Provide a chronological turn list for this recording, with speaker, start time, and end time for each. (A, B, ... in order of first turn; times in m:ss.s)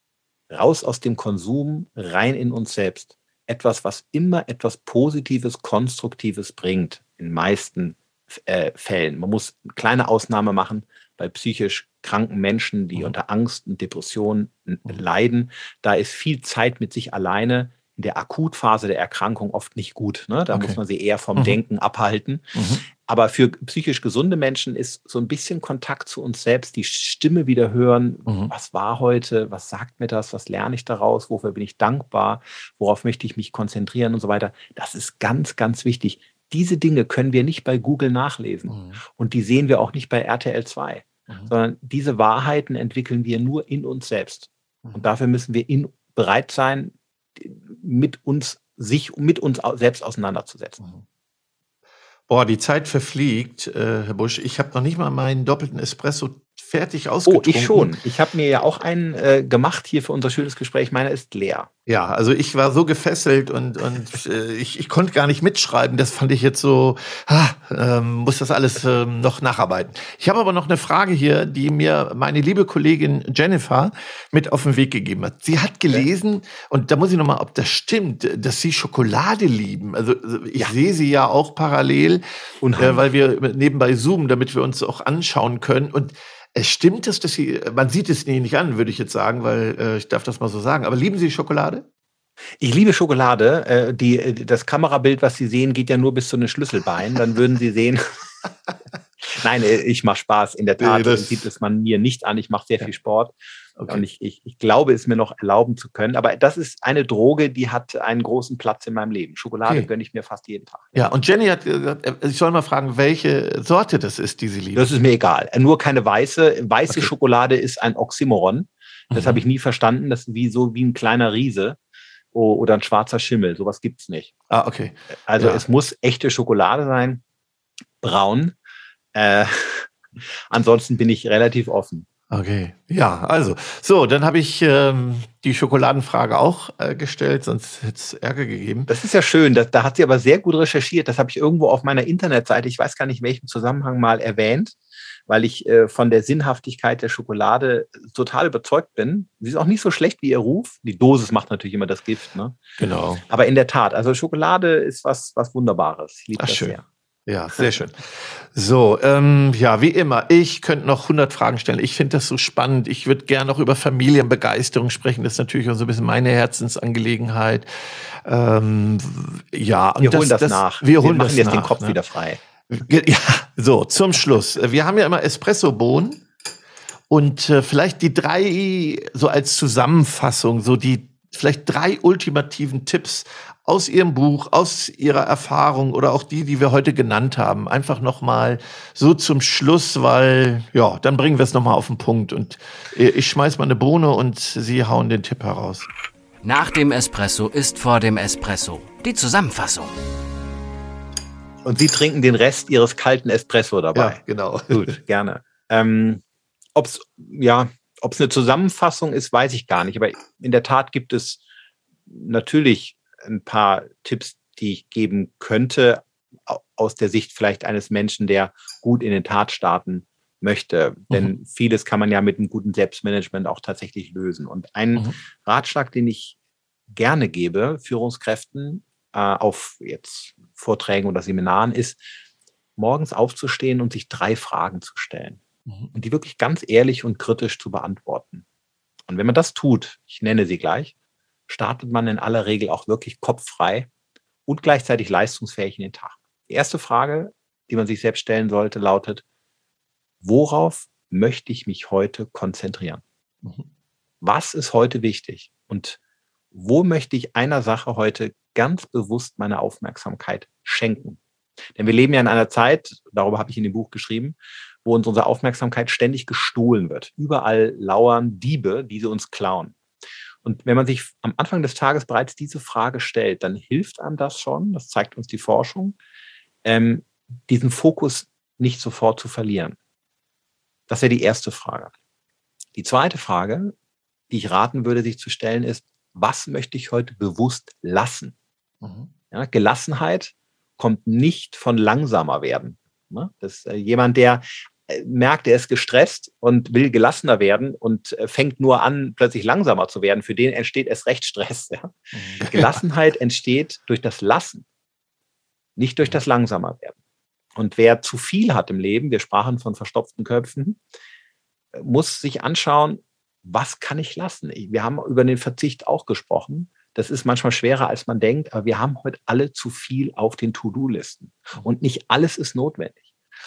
0:00.5-0:50.8 A
0:20.5-0:20.8 B
0:22.5-0:22.8 B
0:28.3-0:28.5 B
0:38.7-0:39.0 B
0:52.3-0:57.9 B
0:57.3-1:01.7 A
1:01.9-1:22.2 B
1:22.6-1:23.0 A
1:22.8-1:31.8 B
1:32.6-1:38.2 A
1:39.2-1:43.3 A
1:40.8-1:41.4 B
1:43.9-1:50.9 A
1:50.9-1:54.9 B
1:54.7-2:01.8 A
1:59.1-1:59.4 B
2:02.3-2:04.3 A
2:04.5-2:05.6 B
2:05.3-2:07.2 A
2:08.0-2:08.5 A
2:09.1-2:12.0 A
2:12.3-2:18.9 B
2:18.9-2:24.8 A
2:25.3-2:32.6 A
2:32.8-2:33.2 B
2:33.3-2:36.8 A
2:36.4-2:47.7 B
2:48.2-2:52.0 B
2:50.0-2:52.4 A
2:52.7-2:56.2 B
2:57.1-3:15.8 B
3:16.4-3:20.0 C
3:21.6-3:26.2 A
3:23.9-3:25.0 B
3:26.7-3:31.4 A
3:32.1-3:46.4 A
3:46.9-3:52.0 A
3:52.8-3:55.4 A
3:55.9-3:58.4 A
3:59.1-4:00.9 A
4:01.5-4:03.9 A
4:04.5-4:09.2 A
4:10.2-4:13.0 A
4:14.2-4:16.0 A
4:16.5-4:21.2 A
4:21.8-4:29.7 A
4:30.4-4:36.0 A
4:36.6-4:39.8 A
4:40.9-4:41.9 A
4:42.7-4:43.7 A
4:44.3-4:48.3 A
4:48.8-4:49.1 B
4:49.3-5:04.6 A
5:02.1-5:02.7 B
5:05.8-5:07.0 A
5:07.5-5:10.8 A
5:11.7-5:23.0 A